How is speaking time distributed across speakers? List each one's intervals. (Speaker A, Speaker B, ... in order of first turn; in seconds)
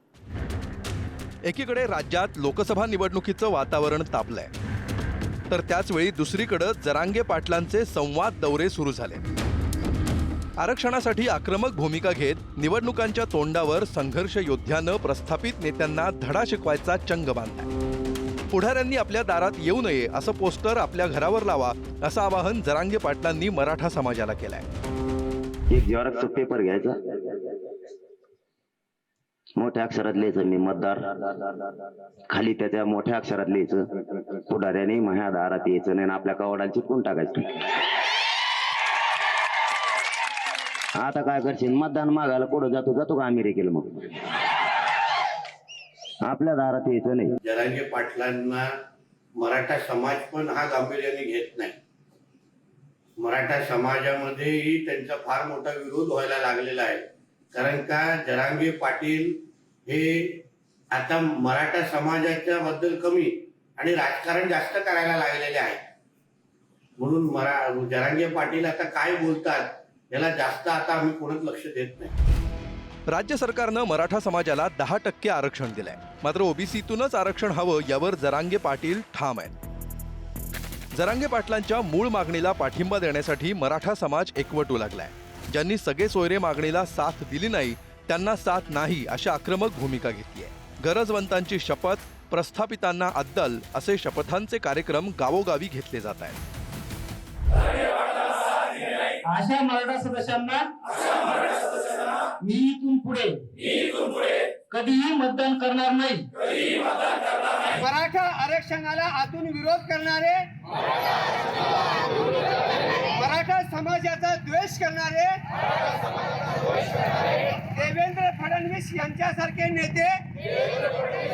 Speaker A: 1.4-4.5, 5.5-9.2, 10.6-17.7, 18.5-24.7, 73.1-79.5, 80.9-96.4
Speaker B: 25.7-27.1, 29.6-31.1, 32.3-37.5, 41.0-44.1, 46.2-47.3
Speaker C: 47.4-48.7, 49.3-51.8, 53.2-65.8, 67.0-72.1
Speaker D: 99.2-100.7, 102.4-103.3, 104.7-106.2
Speaker E: 107.8-110.5, 113.2-115.4, 117.7-120.2